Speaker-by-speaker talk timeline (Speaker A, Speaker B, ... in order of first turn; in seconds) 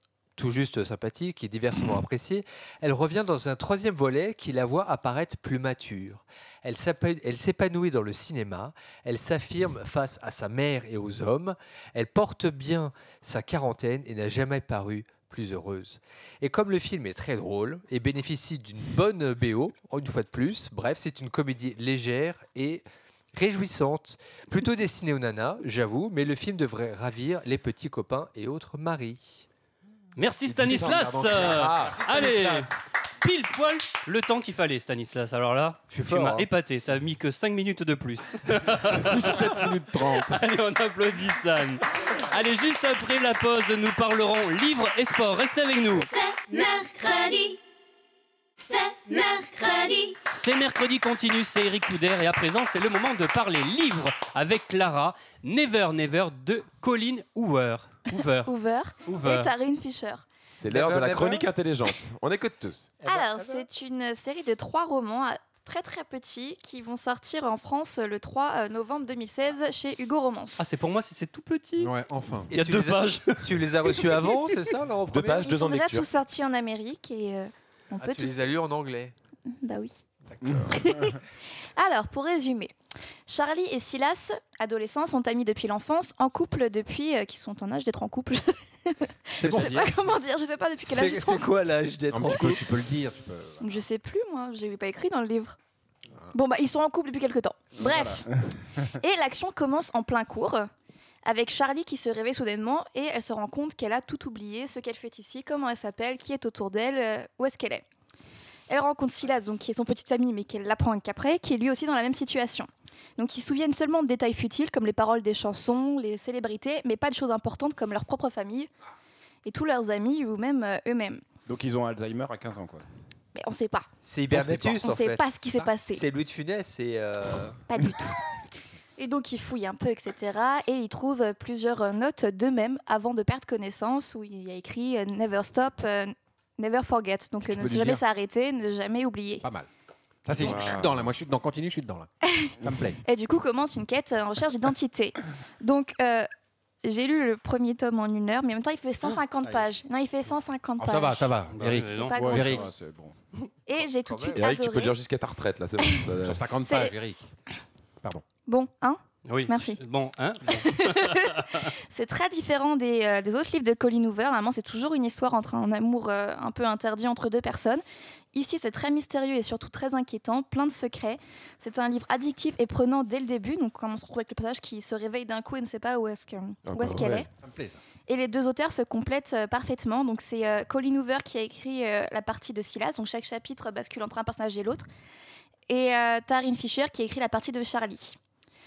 Speaker A: 0.4-29.4, 35.9-36.5, 60.6-61.5, 63.0-63.6, 72.5-75.5, 78.0-79.1, 90.8-92.8, 124.0-127.6
Speaker B: 30.2-32.7, 33.2-46.1, 50.3-58.5, 59.0-59.5, 70.6-71.9, 72.5-74.4, 151.5-152.2, 154.1-154.4, 159.2-161.7
Speaker C: 30.4-32.3, 60.6-62.9, 75.1-76.1, 154.3-156.4, 176.6-177.2
Speaker D: 31.8-32.6, 38.8-40.4, 71.8-72.5, 80.3-81.0, 89.4-90.0, 92.1-93.6, 137.5-138.0, 139.4-139.7, 140.2-142.1, 142.6-143.0, 150.8-152.7, 156.2-157.3, 177.4-177.8
Speaker E: 45.9-47.6, 48.6-50.2
Speaker F: 58.4-60.2, 63.0-70.7, 75.4-78.4, 79.5-79.9, 80.6-81.2, 81.7-82.7, 83.3-91.5, 93.6-95.6, 96.3-98.3, 98.9-100.7, 101.2-107.8, 108.7-118.7, 119.4-121.2, 123.3-123.9, 124.6-126.0, 127.7-128.2, 128.9-139.4, 140.4-140.8, 142.2-146.3, 146.8-151.3, 151.9-152.6, 153.7-155.0, 156.6-156.9, 158.4-159.8, 160.5-177.3, 178.1-184.9, 185.7-188.2
Speaker G: 121.5-122.8, 140.4-141.0, 152.1-153.1